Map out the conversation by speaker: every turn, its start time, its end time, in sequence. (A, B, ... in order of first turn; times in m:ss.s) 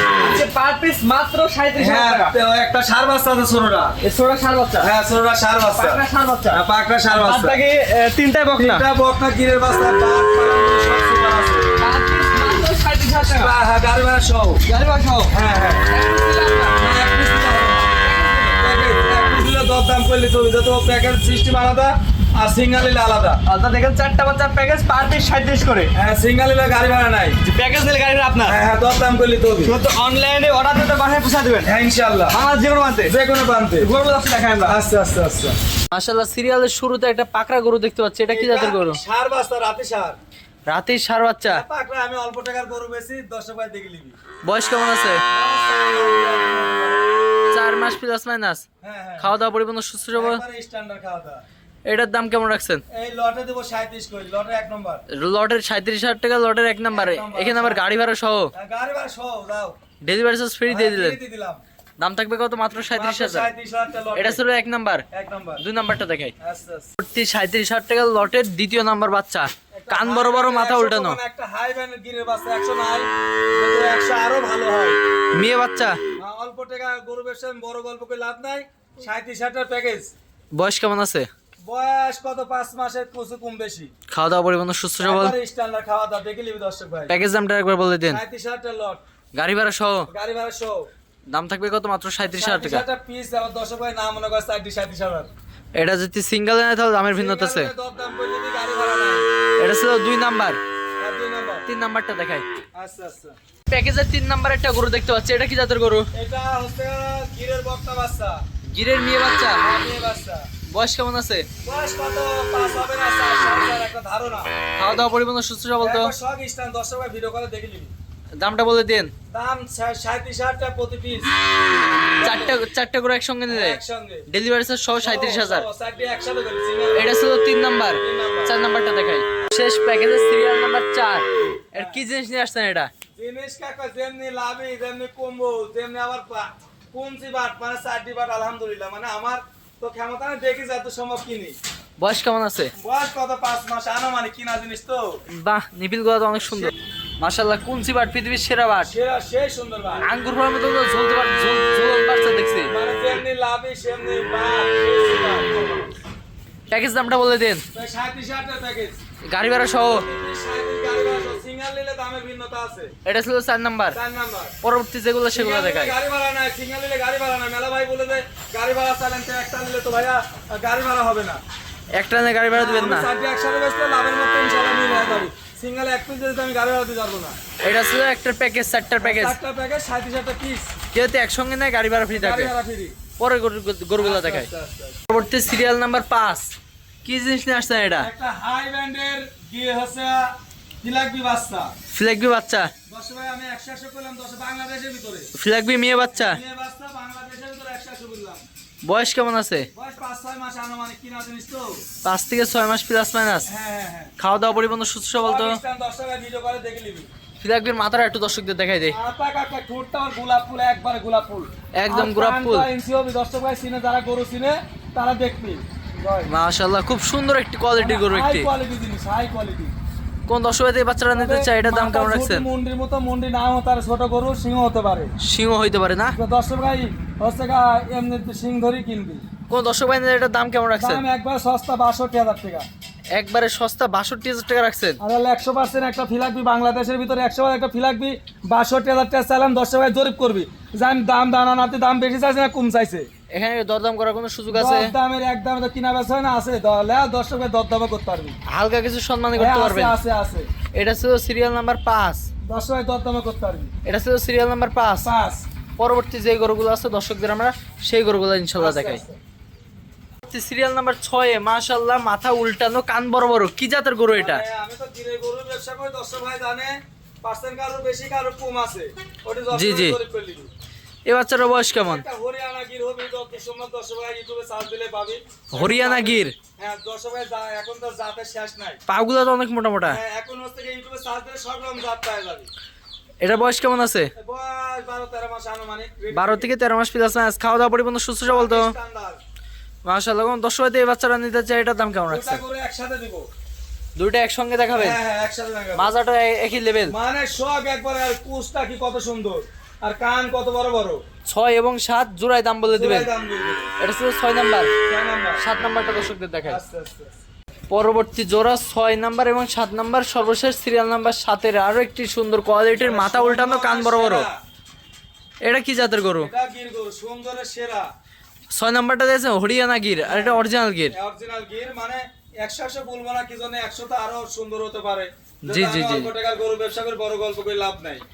0:00.2-0:02.3 A
0:01.8-0:04.0 B
0:04.0-0:04.9 C
0:04.8-0:07.6 B
0:05.7-0:06.6 A
0:07.1-0:08.8 A
0:08.6-0:11.7 B
0:11.8-0:13.5 A
0:13.1-0:14.6 B
0:14.6-0:15.3 A
0:15.3-0:15.8 B
0:15.9-0:16.8 A
0:16.0-0:16.7 C
0:16.8-0:17.9 B
0:18.0-0:18.6 A
0:18.6-0:23.4 B
0:23.4-0:25.9 A
0:25.9-0:27.4 B
0:27.4-0:28.6 A
0:28.4-0:29.7 B
0:29.6-0:31.7 A
0:31.6-0:32.4 B
0:32.3-0:33.1 A
0:33.0-0:33.9 B
0:33.8-0:34.8 A
0:34.6-0:35.6 B
0:35.9-0:39.0 C
0:38.3-0:40.2 B
0:40.7-0:41.6 C
0:41.5-0:44.2 B
0:44.4-0:45.2 C
0:45.3-0:47.0 B
0:47.5-0:48.6 C
0:48.8-0:49.3 B
0:49.2-0:50.4 C
0:50.1-0:51.4 B
0:51.8-0:52.8 C
0:52.9-0:55.0 B
0:55.1-0:58.5 C
0:56.9-0:57.8 B
0:58.5-0:59.8 B
1:00.0-1:01.2 C
1:00.7-1:01.6 B
1:02.0-1:03.5 C
1:02.9-1:04.4 B
1:04.1-1:05.1 C
1:05.1-1:05.6 B
1:05.6-1:06.3 C
1:06.4-1:06.9 B
1:07.0-1:11.2 C
1:09.7-1:15.0 B
1:15.4-1:16.0 C
1:16.2-1:20.1 B
1:20.5-1:21.3 C
1:21.6-1:23.9 B
1:24.1-1:25.4 C
1:25.0-1:27.2 B
1:27.1-1:28.2 C
1:28.1-1:29.0 B
1:29.3-1:30.1 C
1:30.1-1:30.9 B
1:31.3-1:32.8 C
1:32.3-1:35.3 B
1:35.8-1:37.7 C
1:37.1-1:39.3 B
1:39.6-1:40.6 C
1:41.0-1:41.7 B
1:41.7-1:42.5 C
1:42.8-1:43.4 B
1:43.7-1:46.1 C
1:46.1-1:48.4 B
1:48.7-1:49.6 C
1:49.6-1:50.5 B
1:50.7-1:51.5 C
1:51.6-1:54.5 B
1:54.8-1:56.1 C
1:55.8-1:57.9 B
1:58.4-1:59.1 C
1:59.3-2:01.3 B
2:02.2-2:02.6 B
2:02.2-2:05.7 C
2:03.5-2:04.3 B
2:05.0-2:07.2 B
2:06.9-2:12.9 C
2:08.0-2:08.5 B
2:11.7-2:12.0 B
2:13.2-2:21.6 B
2:22.0-2:22.7 C
2:22.8-2:25.2 B
2:25.3-2:28.9 C
2:26.4-2:26.7 B
2:28.8-2:30.1 B
2:30.0-2:32.7 C
2:32.7-2:35.9 B
2:36.7-2:37.6 C
2:37.7-2:39.0 B
2:39.3-2:40.1 C
2:39.7-2:42.9 B
2:43.0-2:44.0 C
2:43.9-2:44.6 B
2:44.6-2:46.0 C
2:45.3-2:51.4 B
2:51.9-2:53.1 C
2:52.5-2:57.4 B
2:57.6-2:59.4 C
2:59.0-3:00.7 B
3:00.9-3:02.5 C
3:02.1-3:02.9 B
3:03.2-3:04.5 C
3:04.0-3:05.0 B
3:05.1-3:06.5 C
3:07.0-3:08.1 C
3:08.0-3:10.3 B
3:10.8-3:11.7 B
3:11.9-3:12.7 C
3:12.9-3:15.3 B
3:15.3-3:16.4 C
3:16.1-3:18.4 B
3:18.8-3:19.7 C
3:19.7-3:21.8 B
3:22.0-3:23.5 C
3:23.5-3:24.1 B
3:24.2-3:25.6 C
3:25.2-3:27.1 B
3:27.4-3:29.0 C
3:28.9-3:36.3 B
3:31.8-3:32.7 C
3:36.3-3:38.5 C
3:37.8-3:39.8 B
3:40.3-3:42.5 C
3:41.1-3:45.1 B
3:45.2-3:46.2 C
3:46.1-3:49.2 B
3:49.5-3:51.0 C
3:50.7-3:52.7 B
3:53.1-3:55.0 C
3:55.0-4:03.1 B
4:03.3-4:04.9 C
4:04.5-4:08.4 B
4:08.5-4:10.0 C
4:09.3-4:10.5 B
4:10.7-4:12.3 C
4:12.5-4:13.7 B
4:13.8-4:15.1 C
4:15.0-4:15.4 B
4:15.8-4:19.0 C
4:18.6-4:19.2 B
4:20.2-4:24.4 C
4:24.1-4:30.5 B
4:29.5-4:30.0 C
4:31.1-4:32.0 C
4:31.8-4:38.8 B
4:35.5-4:36.4 C
4:38.9-4:40.0 C
4:39.8-4:42.5 B
4:43.2-4:44.1 C
4:44.2-4:46.5 B
4:46.1-4:48.7 C
4:48.2-4:49.2 B
4:49.8-4:52.4 C
4:52.1-4:53.3 B
4:54.0-4:55.0 C
4:54.8-4:55.9 B
4:55.8-4:56.9 C
4:56.9-5:01.0 B
5:01.2-5:03.1 C
5:02.7-5:03.7 B
5:03.8-5:04.7 C
5:04.9-5:05.4 B
5:05.4-5:06.6 C
5:06.5-5:07.1 B
5:07.7-5:14.3 C
5:12.8-5:14.4 B
5:15.4-5:16.3 C
5:16.2-5:17.9 B
5:18.5-5:20.9 C
5:20.0-5:28.0 B
5:25.5-5:26.1 C